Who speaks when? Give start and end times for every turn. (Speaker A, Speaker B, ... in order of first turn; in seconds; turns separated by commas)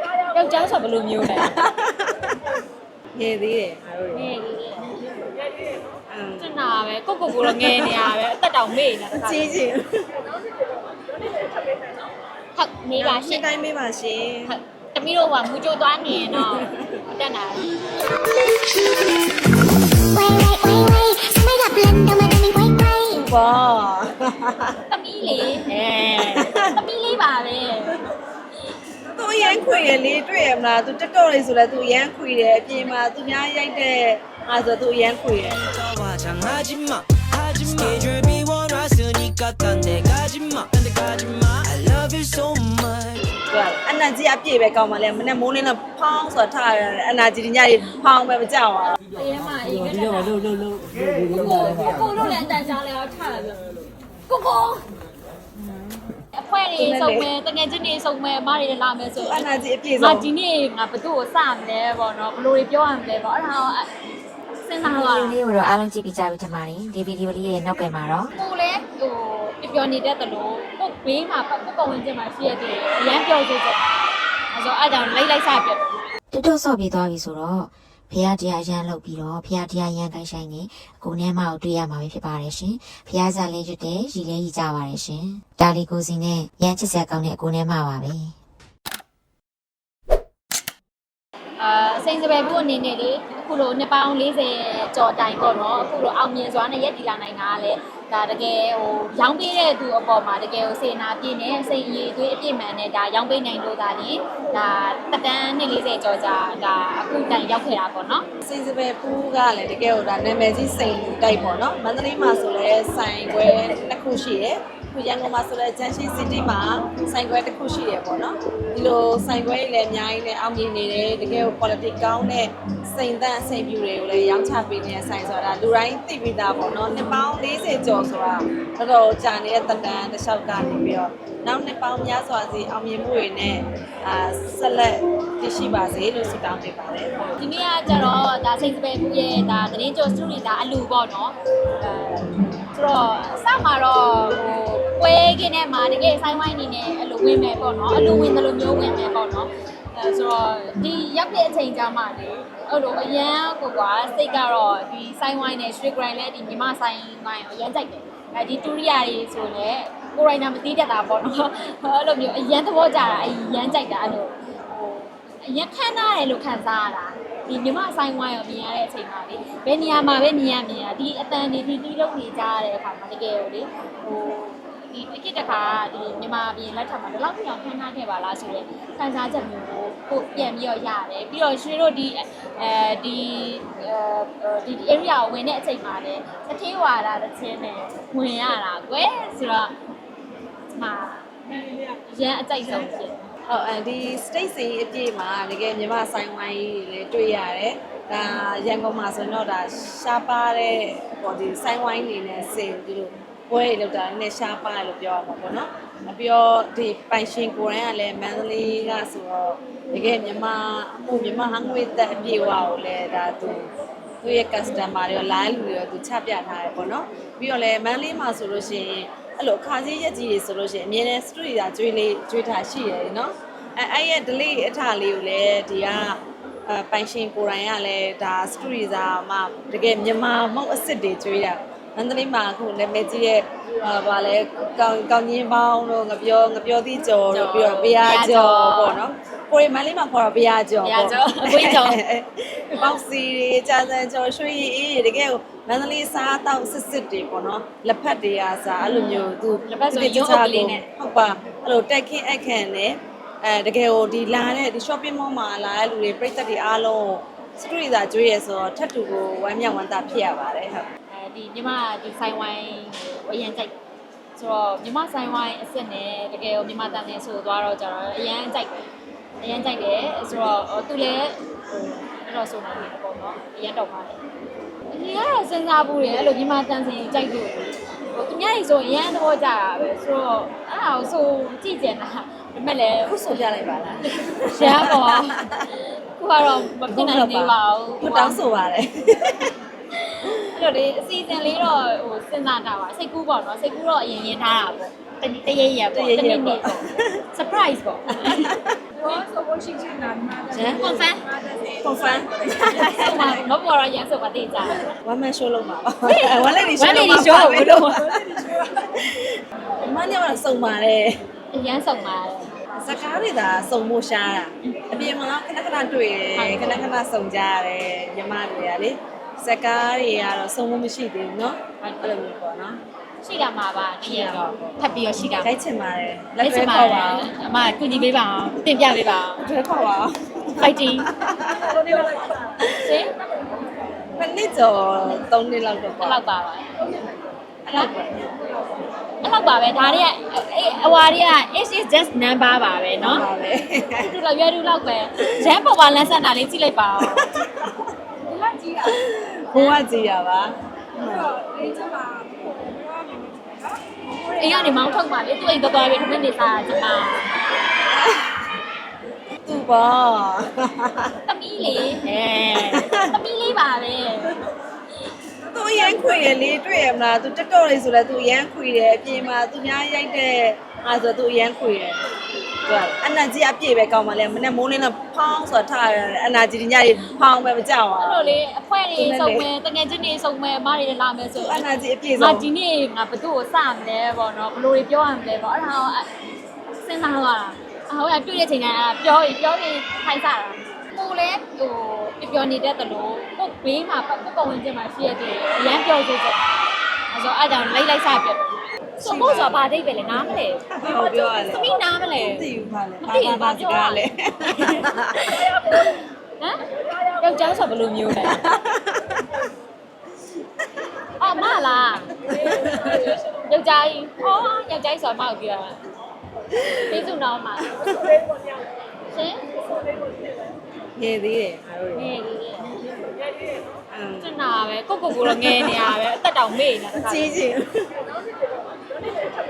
Speaker A: 0.3-1.5, Speaker B: 1.2-2.4, Speaker B: 3.1-4.2, Speaker A: 4.1-5.0, Speaker B: 6.1-6.5, Speaker A: 6.4-9.6, Speaker B: 7.3-8.0, Speaker B: 9.1-10.1, Speaker A: 12.6-13.4, Speaker B: 13.0-14.5, Speaker A: 14.5-17.8, Speaker B: 16.3-16.9, Speaker C: 18.0-23.2, Speaker B: 23.1-24.8, Speaker A: 24.9-28.0, Speaker B: 26.2-26.8, Speaker B: 29.1-35.6, Speaker D: 35.7-43.3, Speaker B: 43.5-49.0, Speaker A: 49.1-53.6, Speaker A: 54.3-54.8, Speaker A: 56.3-63.9, Speaker B: 56.8-57.3, Speaker B: 59.1-60.3, Speaker A: 64.6-65.4, Speaker E: 64.8-68.3, Speaker A: 68.3-75.8, Speaker E: 76.3-88.3, Speaker A: 91.6-108.2, Speaker B: 108.4-137.2, Speaker A: 137.4-189.7, Speaker A: 190.7-191.3, Speaker A: 191.9-193.2, Speaker B: 193.5-213.7, Speaker B: 214.2-260.9, Speaker A: 237.2-239.0, Speaker A: 240.8-242.0, Speaker A: 248.8-250.9, Speaker A: 261.1-263.7, Speaker A: 264.4-268.8, Speaker A: 269.4-271.4, Speaker A: 272.2-274.2, Speaker A: 274.9-283.4, Speaker B: 283.0-285.6, Speaker A: 284.5-288.4, Speaker B: 286.6-289.5, Speaker A: 289.9-296.8, Speaker B: 295.9-297.2, Speaker A: 297.3-301.3, Speaker B: 298.2-298.8, Speaker B: 300.4-303.4, Speaker A: 302.6-304.8, Speaker B: 304.8-311.2, Speaker A: 306.1-308.1, Speaker A: 311.5-312.5, Speaker B: 312.7-322.8, Speaker A: 314.6-315.1, Speaker A: 316.3-316.9, Speaker A: 321.8-322.2, Speaker A: 323.2-325.5, Speaker B: 324.0-324.8, Speaker B: 325.4-327.3, Speaker A: 326.4-329.4, Speaker B: 329.4-332.8, Speaker A: 330.6-331.1, Speaker A: 332.7-333.1, Speaker B: 334.2-336.2, Speaker A: 336.0-336.6, Speaker B: 337.6-338.3, Speaker A: 339.2-343.2, Speaker B: 339.8-340.1, Speaker B: 343.0-344.1, Speaker A: 344.0-347.3, Speaker B: 347.0-347.9, Speaker A: 348.4-348.7, Speaker B: 348.8-351.4, Speaker A: 349.5-349.8, Speaker A: 354.2-357.5, Speaker B: 357.9-358.4, Speaker B: 359.5-361.1, Speaker A: 361.2-364.4, Speaker B: 362.6-363.2, Speaker B: 365.5-372.0, Speaker B: 372.6-378.4, Speaker A: 378.0-386.1, Speaker B: 378.9-379.5, Speaker B: 381.3-382.4, Speaker A: 386.8-402.5, Speaker B: 399.0-399.7, Speaker B: 400.8-405.8, Speaker A: 403.0-404.0, Speaker A: 404.6-408.4, Speaker B: 408.2-409.3, Speaker B: 410.6-411.3, Speaker A: 411.2-415.7, Speaker B: 412.2-413.1, Speaker B: 416.5-417.0, Speaker A: 416.6-417.7, Speaker B: 417.7-418.1, Speaker A: 419.1-419.4, Speaker B: 420.9-422.1, Speaker A: 421.9-422.7, Speaker B: 423.9-424.3, Speaker A: 424.2-427.4, Speaker B: 425.1-425.9, Speaker B: 427.0-427.9